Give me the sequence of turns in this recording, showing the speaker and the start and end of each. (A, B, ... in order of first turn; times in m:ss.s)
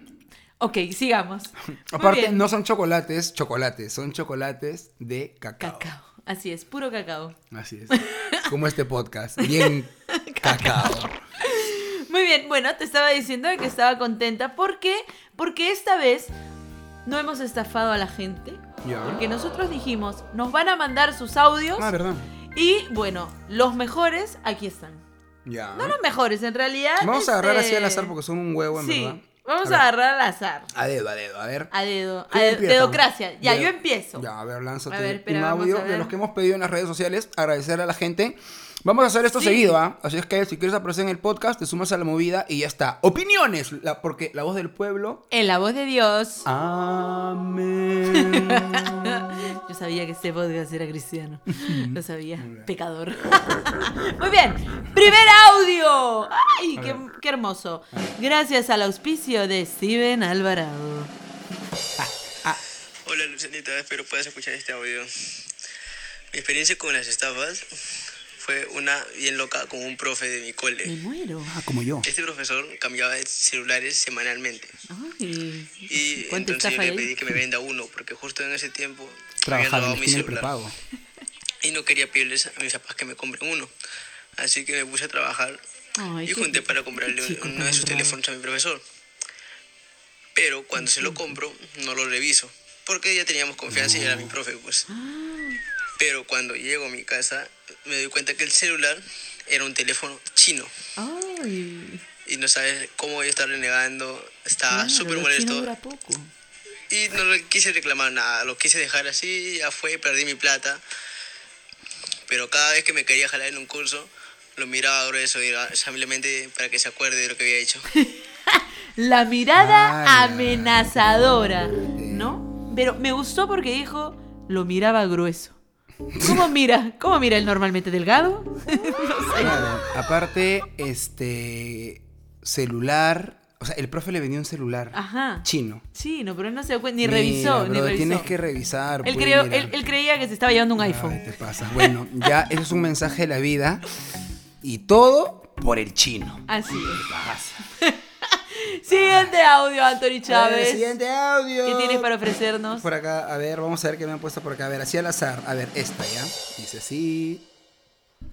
0:00.6-0:02.5 A
0:01.9-0:05.9 B
0:05.6-0:07.4 A
0:07.5-0:11.2 B
0:07.9-0:08.5 A
0:09.4-0:16.3 A
0:17.0-0:21.9 A
0:18.8-0:19.2 B
0:21.8-0:22.3 B
0:22.5-0:25.0 A
0:25.4-0:26.0 B
0:25.7-0:28.1 A
0:27.0-0:29.8 B
0:28.7-0:30.7 A
0:30.7-0:31.7 B
0:31.7-0:34.2 A
0:32.3-0:45.2 B
0:34.9-0:36.1 A
0:39.3-0:39.7 A
0:45.3-0:46.5 A
0:46.4-0:48.9 B
0:48.1-1:01.1 A
0:51.5-0:52.7 B
0:56.8-0:57.0 B
1:02.0-1:02.6 B
1:03.0-1:05.4 C
1:06.3-1:07.7 C
1:08.4-1:11.0 C
1:10.8-1:11.5 A
1:11.4-1:12.1 B
1:12.0-1:14.8 C
1:14.9-1:17.1 A
1:15.9-1:20.5 C
1:19.4-1:20.7 B
1:21.6-1:23.7 C
1:24.4-1:25.6 C
1:26.0-1:28.2 A
1:26.2-1:28.8 C
1:30.3-1:34.9 C
1:30.8-1:31.3 A
1:33.7-1:34.3 B
1:34.9-1:35.6 A
1:36.0-1:40.7 C
1:41.0-1:42.0 A
1:42.2-1:45.7 C
1:44.7-1:46.3 A
1:46.9-1:50.8 C
1:52.3-1:57.9 C
1:57.9-2:05.6 A
1:59.6-2:01.0 B
2:01.8-2:02.4 B
2:06.1-2:06.4 B
2:06.2-2:09.7 A
2:09.4-2:15.8 B
2:14.9-2:18.3 A
2:17.0-2:19.8 B
2:19.0-2:21.9 A
2:20.8-2:23.8 B
2:24.6-2:27.6 B
2:26.5-2:27.1 A
2:27.8-2:31.0 A
2:28.9-2:29.3 B
2:30.2-2:32.1 B
2:31.6-2:32.8 A
2:32.7-2:37.4 B